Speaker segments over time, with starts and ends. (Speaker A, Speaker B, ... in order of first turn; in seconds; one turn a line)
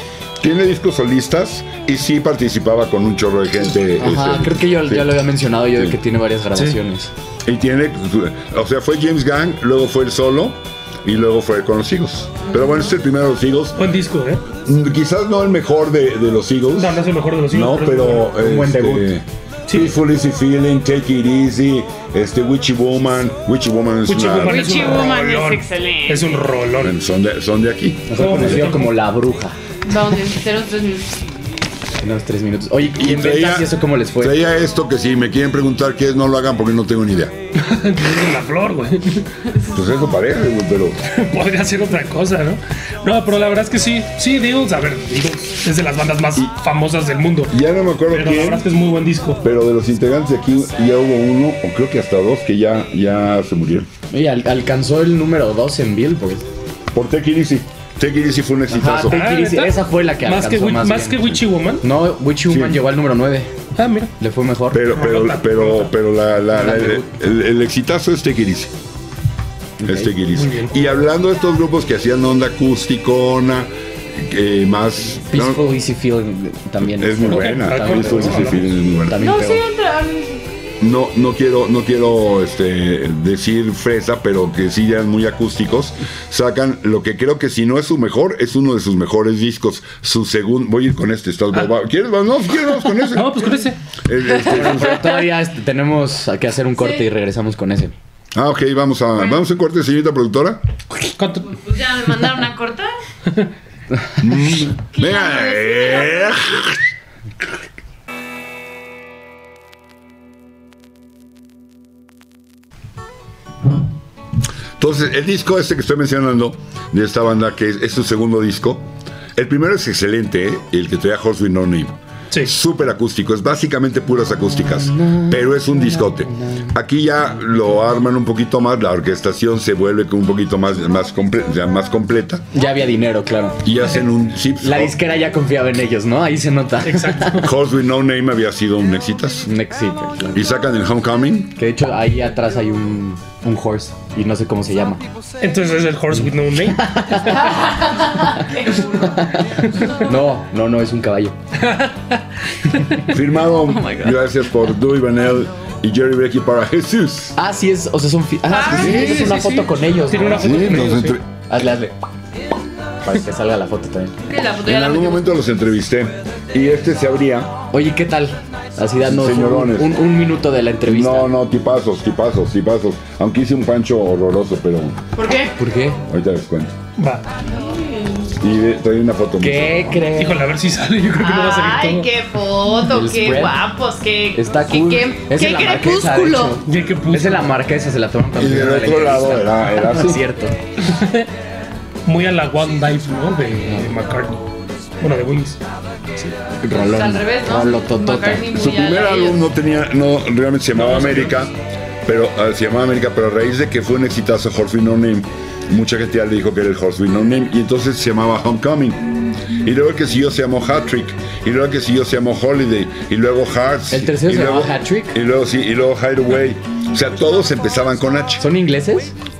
Speaker A: 0.4-5.2
Speaker B: 4.0-7.1
Speaker A: 7.4-13.8
Speaker C: 13.8-14.4
Speaker A: 14.6-24.8
Speaker C: 16.8-18.3
Speaker B: 18.3-19.1
Speaker C: 19.7-19.9
Speaker C: 24.1-26.9
Speaker D: 24.4-26.4
Speaker A: 26.8-28.7
Speaker B: 28.1-29.6
Speaker C: 28.1-28.9
Speaker D: 29.8-31.2
Speaker B: 32.0-34.4
Speaker A: 32.9-37.3
Speaker C: 37.6-39.3
Speaker A: 39.7-41.0
Speaker C: 41.0-47.5
Speaker A: 47.5-48.6
Speaker C: 48.1-49.4
Speaker A: 49.4-53.9
Speaker B: 54.1-56.4
Speaker A: 56.9-59.2
Speaker B: 58.7-63.5
Speaker C: 59.1-61.8
Speaker A: 62.5-62.8
Speaker C: 63.8-64.1
Speaker B: 64.2-64.9
Speaker A: 64.7-68.7
Speaker C: 64.9-65.9
Speaker B: 66.5-67.1
Speaker B: 69.8-70.1
Speaker A: 69.8-75.6
Speaker C: 70.3-70.7
Speaker B: 75.2-79.6
Speaker A: 76.9-79.2
Speaker C: 77.2-78.7
Speaker D: 79.2-80.5
Speaker A: 80.8-93.4
Speaker C: 92.9-93.8
Speaker A: 94.0-95.2
Speaker B: 94.4-97.9
Speaker A: 98.3-100.6
Speaker C: 101.0-101.5
Speaker D: 101.5-102.9
Speaker A: 104.2-106.8
Speaker D: 104.9-106.5
Speaker A: 114.8-132.4
Speaker B: 124.7-126.7
Speaker B: 132.5-133.8
Speaker A: 133.6-134.9
Speaker B: 134.6-137.5
Speaker C: 136.8-137.4
Speaker A: 137.4-139.5
Speaker B: 139.4-140.5
Speaker A: 140.3-141.6
Speaker B: 141.6-145.0
Speaker C: 145.4-147.2
Speaker B: 146.1-147.8
Speaker D: 147.5-149.2
Speaker B: 149.0-151.3
Speaker C: 151.6-152.2
Speaker A: 153.0-157.3
Speaker D: 153.7-154.2
Speaker B: 157.3-161.0
Speaker D: 158.5-159.4
Speaker C: 158.7-161.2
Speaker A: 160.3-161.2
Speaker B: 161.5-161.9
Speaker B: 163.0-164.2
Speaker D: 164.2-165.3
Speaker A: 164.7-167.6
Speaker B: 167.7-171.3
Speaker A: 169.0-169.9
Speaker A: 170.8-175.0
Speaker D: 175.1-175.6
Speaker B: 175.6-176.0
Speaker A: 176.1-176.7
Speaker C: 177.0-177.2
Speaker D: 177.4-178.3
Speaker A: 178.4-180.0
Speaker B: 179.4-180.5
Speaker C: 180.1-182.1
Speaker D: 181.1-186.6
Speaker B: 182.8-183.6
Speaker B: 184.3-190.6
Speaker C: 186.6-187.5
Speaker A: 188.3-190.2
Speaker C: 190.8-191.3
Speaker C: 192.0-194.4
Speaker C: 195.0-195.6
Speaker B: 196.2-198.6
Speaker D: 196.7-199.4
Speaker A: 198.5-201.5
Speaker C: 200.7-201.4
Speaker A: 202.0-218.4
Speaker B: 213.9-215.2
Speaker B: 218.4-219.1